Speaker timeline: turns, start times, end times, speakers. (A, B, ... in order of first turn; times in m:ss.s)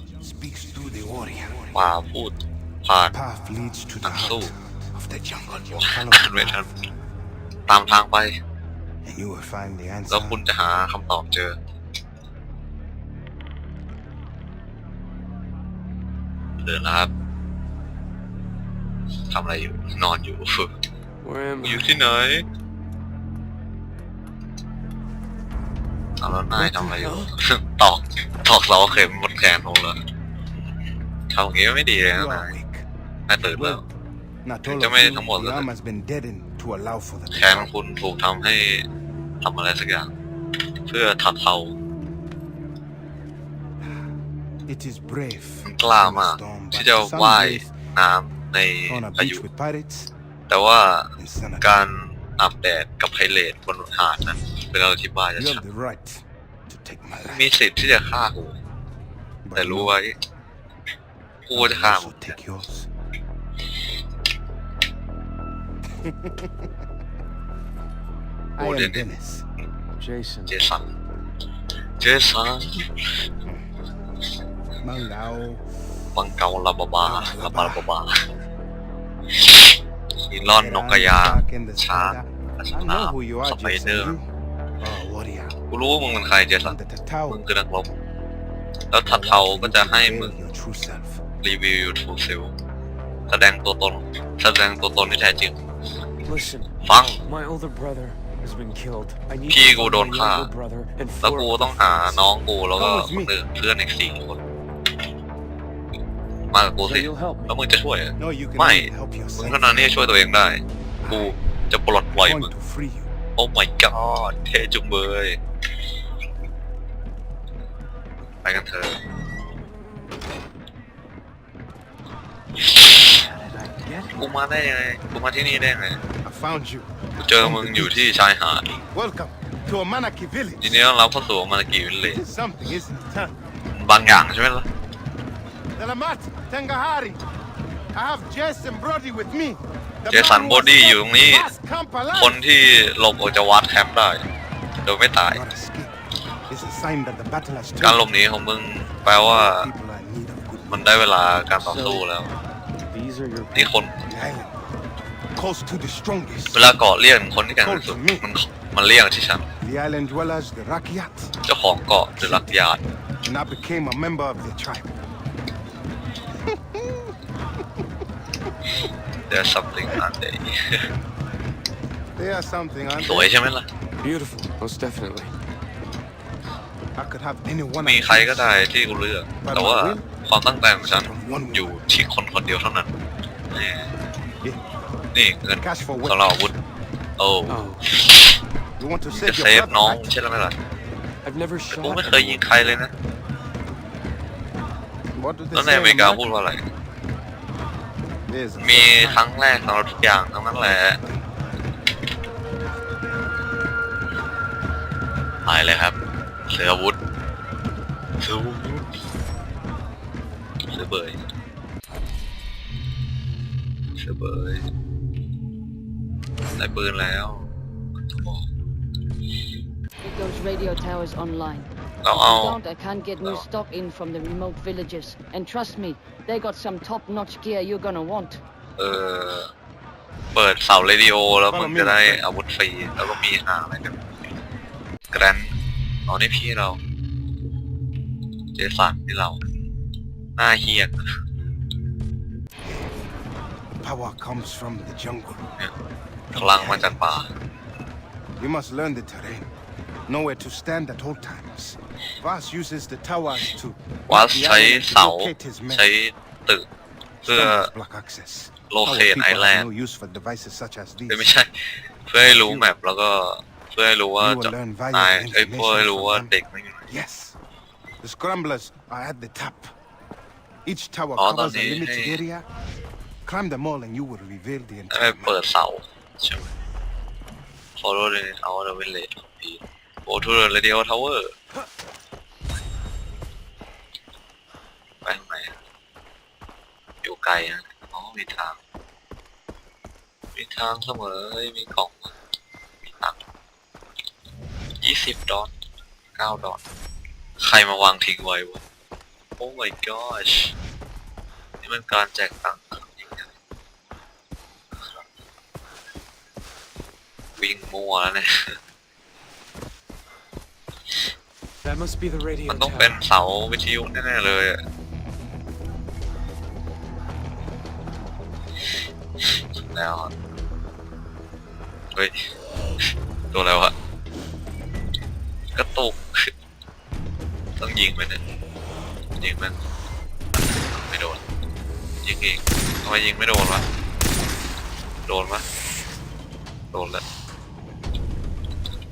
0:00.2-0:01.8 A
0:01.7-0:03.2 B
0:03.1-0:07.0 A
0:04.0-0:04.5 B
0:05.8-0:06.7 B
0:07.7-0:08.3 B
0:09.0-0:10.4 A
0:10.1-0:11.6 B
0:16.6-0:17.1 B
0:19.3-0:20.7 B
0:21.2-0:22.0 C
0:21.6-0:22.4 B
0:26.2-0:30.0 B
0:26.6-0:27.0 A
0:26.9-0:27.3 C
0:31.3-0:32.6 B
0:32.1-0:32.9 A
0:33.3-0:33.8 B
0:33.5-0:33.9 A
0:34.4-0:37.7 A
0:34.6-0:35.7 B
0:37.3-0:38.8 B
0:39.4-0:40.1 B
0:40.9-0:41.8 B
0:44.7-0:47.8 A
0:45.6-0:49.4 B
0:48.9-0:50.1 A
0:50.5-0:55.6 B
0:51.2-0:51.8 A
0:55.4-0:57.5 A
0:57.2-0:58.6 B
0:59.4-1:00.0 A
0:59.6-1:00.2 B
1:01.5-1:02.4 B
1:01.5-1:02.9 A
1:06.0-1:06.7 A
1:08.6-1:09.5 A
1:08.6-1:09.1 B
1:10.0-1:10.5 C
1:10.5-1:10.9 B
1:12.0-1:13.0 B
1:14.8-1:15.6 A
1:16.2-1:18.2 B
1:17.0-1:17.9 A
1:20.3-1:24.2 B
1:20.5-1:24.3 A
1:24.8-1:25.6 A
1:25.7-1:26.8 B
1:26.6-1:27.4 A
1:27.3-1:28.0 B
1:28.9-1:30.5 B
1:29.0-1:31.2 A
1:31.4-1:32.6 B
1:33.3-1:35.6 B
1:36.2-1:42.2 C
1:36.8-1:37.2 B
1:39.5-1:40.5 B
1:41.2-1:44.4 B
1:42.8-1:43.4 A
1:46.5-1:52.5 B
1:46.8-1:47.6 C
1:48.2-1:50.0 A
1:51.0-1:51.4 A
1:52.2-1:53.1 A
1:53.4-1:55.4 B
1:58.4-1:59.0 B
2:03.0-2:04.1 C
2:04.2-2:06.0 B
2:06.2-2:08.2 A
2:07.2-2:08.6 B
2:08.7-2:10.8 A
2:10.6-2:12.2 B
2:12.0-2:13.4 A
2:13.7-2:14.7 B
2:15.8-2:17.2 A
2:18.0-2:22.4 A
2:20.1-2:21.5 B
2:22.2-2:24.2 B
2:24.8-2:25.4 B
2:25.3-2:26.0 A
2:26.5-2:28.0 A
2:27.8-2:29.7 B
2:29.2-2:30.9 A
2:30.7-2:32.3 B
2:31.6-2:32.1 C
2:32.9-2:33.7 C
2:33.5-2:33.9 B
2:34.1-2:34.6 A
2:35.4-2:36.7 A
2:36.5-2:39.5 B
2:37.6-2:38.3 A
2:39.6-2:41.3 A
2:41.4-2:42.8 B
2:42.1-2:42.7 A
2:43.2-2:45.0 A
2:46.6-2:47.1 A
2:49.3-2:50.9 B
2:52.2-2:53.3 A
2:53.0-2:53.7 B
2:54.0-2:55.4 C
2:57.0-2:58.6 A
2:57.8-3:02.9 B
2:59.4-3:00.1 A
3:00.8-3:01.9 A
3:03.5-3:03.9 B
3:05.1-3:06.5 B
3:05.6-3:06.5 A
3:07.2-3:08.4 B
3:07.5-3:07.8 C
3:08.8-3:10.1 A
3:09.1-3:10.6 B
3:11.2-3:12.6 C
3:11.7-3:12.9 B
3:15.2-3:16.2 A
3:15.5-3:16.6 B
3:18.3-3:19.3 A
3:18.6-3:21.0 B
3:20.6-3:21.4 A
3:25.4-3:26.0 B
3:26.5-3:27.0 B
3:28.2-3:28.9 B
3:30.7-3:31.2 B
3:34.0-3:34.6 B
3:36.6-3:38.5 B
3:40.0-3:41.7 D
3:42.0-3:42.6 B
3:42.2-3:48.4 D
3:43.2-3:43.5 B
3:48.8-3:49.5 B
3:50.3-3:54.2 B
3:51.5-3:52.3 A
3:55.1-3:55.5 B
3:56.1-3:56.8 B
3:58.6-3:59.4 B
4:00.4-4:01.0 B
4:03.8-4:05.5 A
4:06.3-4:07.2 A
4:06.3-4:07.3 B
4:08.4-4:09.5 A
4:10.1-4:15.9 A
4:14.1-4:16.6 B
4:17.2-4:17.7 B
4:17.2-4:21.3 A
4:18.7-4:19.7 B
4:21.1-4:21.5 B
4:22.1-4:26.9 B
4:22.2-4:22.7 A
4:24.2-4:26.3 A
4:26.9-4:27.4 A
4:28.0-4:29.7 A
4:30.7-4:32.5 A
4:31.2-4:32.2 B
4:33.2-4:35.4 A
4:34.9-4:36.5 B
4:37.8-4:41.4 B
4:45.0-4:45.5 B
4:47.0-4:48.6 B
4:50.4-4:52.1 B
4:54.8-4:55.5 B
4:56.2-4:56.6 B
4:57.4-4:58.6 B
4:59.4-5:00.6 B
5:01.6-5:03.3 B
5:07.4-5:08.6 B
5:11.6-5:13.0 C
5:12.5-5:14.6 B
5:19.2-5:20.1 B
5:23.3-5:23.7 B
5:25.6-5:26.3 B
5:27.6-5:28.2 B
5:29.2-5:29.6 B
5:30.4-5:31.2 B
5:32.0-5:33.6 B
5:35.1-5:35.4 B
5:36.7-5:37.0 B